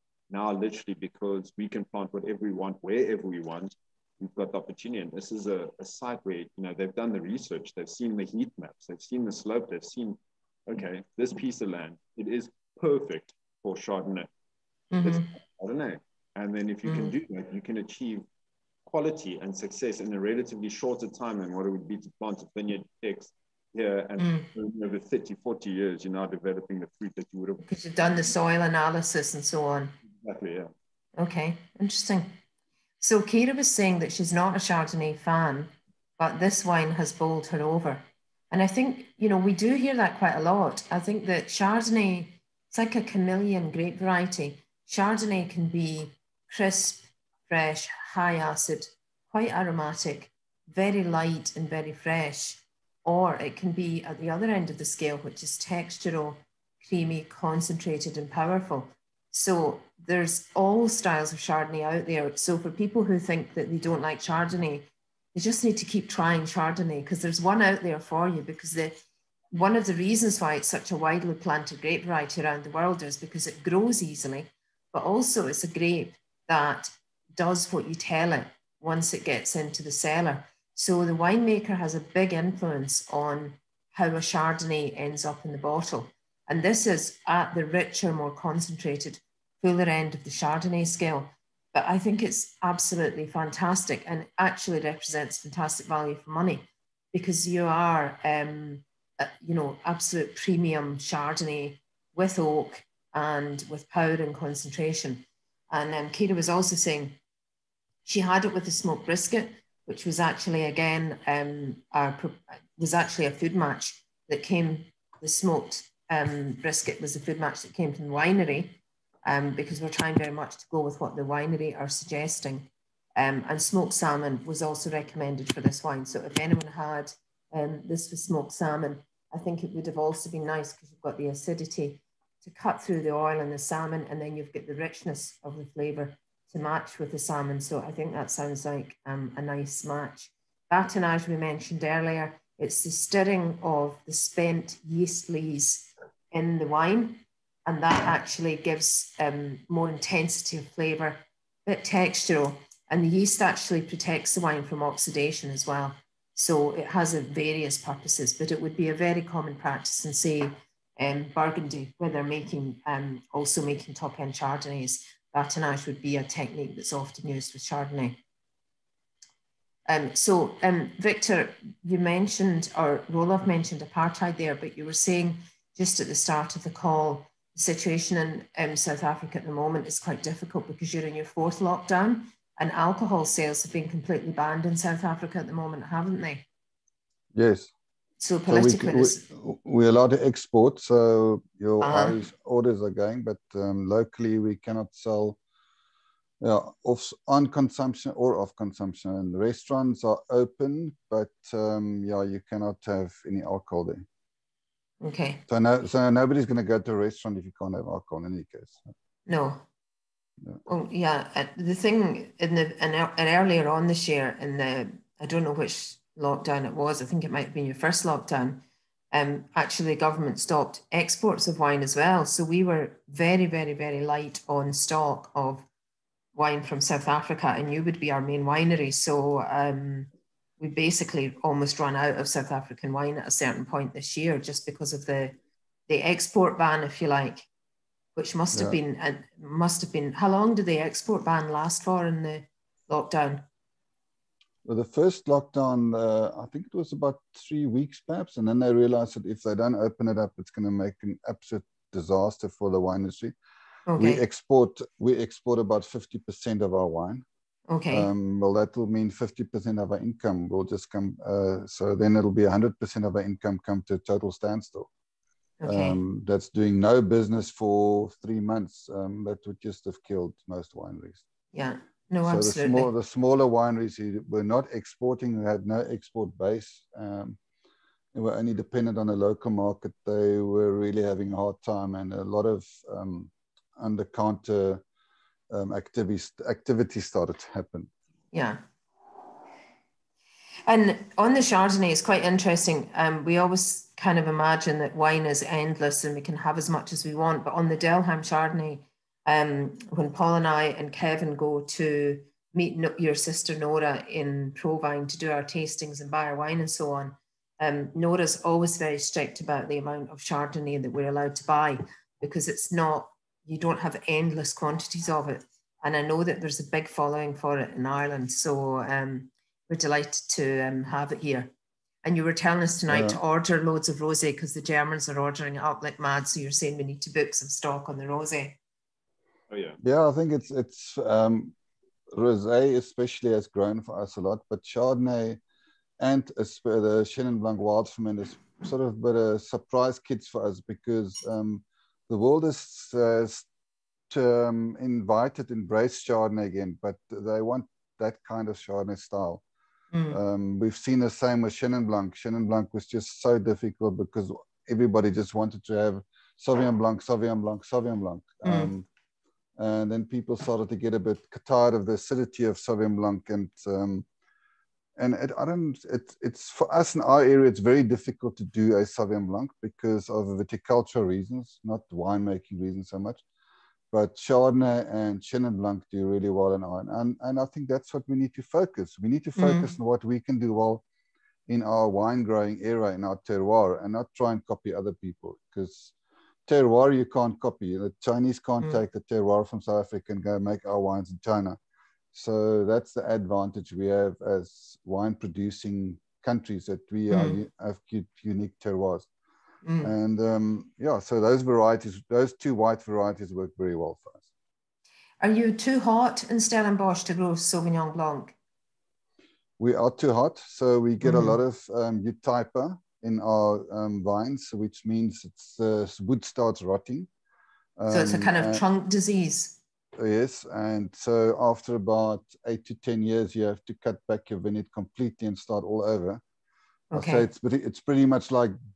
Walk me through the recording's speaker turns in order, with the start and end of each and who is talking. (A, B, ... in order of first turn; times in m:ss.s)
0:00.3-0:14.3 A
0:14.9-0:15.3 B
0:15.0-0:18.3 A
0:16.8-0:17.2 B
0:18.9-0:28.3 A
0:24.2-0:24.5 B
0:27.6-0:30.0 B
0:30.1-0:30.7 A
0:31.2-0:32.4 B
0:33.0-1:09.0 B
1:09.5-1:47.2 B
1:48.0-2:48.2 B
2:49.9-3:06.5 B
3:07.3-3:07.7 C
3:08.2-3:09.3 B
3:08.5-3:15.4 C
3:11.8-3:12.2 B
3:16.4-3:24.1 C
3:25.0-3:25.4 B
3:25.5-3:28.9 C
3:29.3-3:29.6 B
3:30.7-3:45.7 B
3:46.3-3:55.4 B
3:55.9-3:57.5 B
3:58.2-4:03.5 B
4:04.6-4:13.3 C
4:13.9-4:14.2 B
4:14.0-4:17.2 C
4:17.7-4:18.1 B
4:17.9-4:24.9 C
4:25.6-4:26.0 B
4:25.6-4:31.2 C
4:31.5-4:32.9 B
4:32.2-4:37.4 C
4:38.1-4:44.8 C
4:45.5-4:47.9 C
4:48.3-4:48.6 B
4:50.7-5:21.5 B
5:22.0-5:28.6 B
5:22.9-5:23.2 C
5:29.5-5:29.8 A
5:29.8-5:31.6 C
5:32.1-5:35.4 C
5:36.0-5:43.5 C
5:44.1-5:49.4 C
5:49.9-5:50.2 B
5:50.1-5:58.9 C
5:58.4-5:58.7 B
5:59.6-6:04.1 C
6:05.0-6:13.2 C
6:13.9-6:20.8 C
6:19.4-6:19.8 B
6:21.5-6:25.9 C
6:26.5-6:31.6 C
6:32.1-6:39.1 C
6:37.1-6:37.4 B
6:39.6-6:39.9 B
6:39.8-6:44.2 C
6:45.2-6:48.4 B
6:49.6-6:57.1 C
6:51.0-6:51.4 B
6:57.8-6:58.6 C
6:57.9-6:59.6 B
7:00.0-7:06.2 C
7:06.9-7:07.3 B
7:06.9-7:08.6 C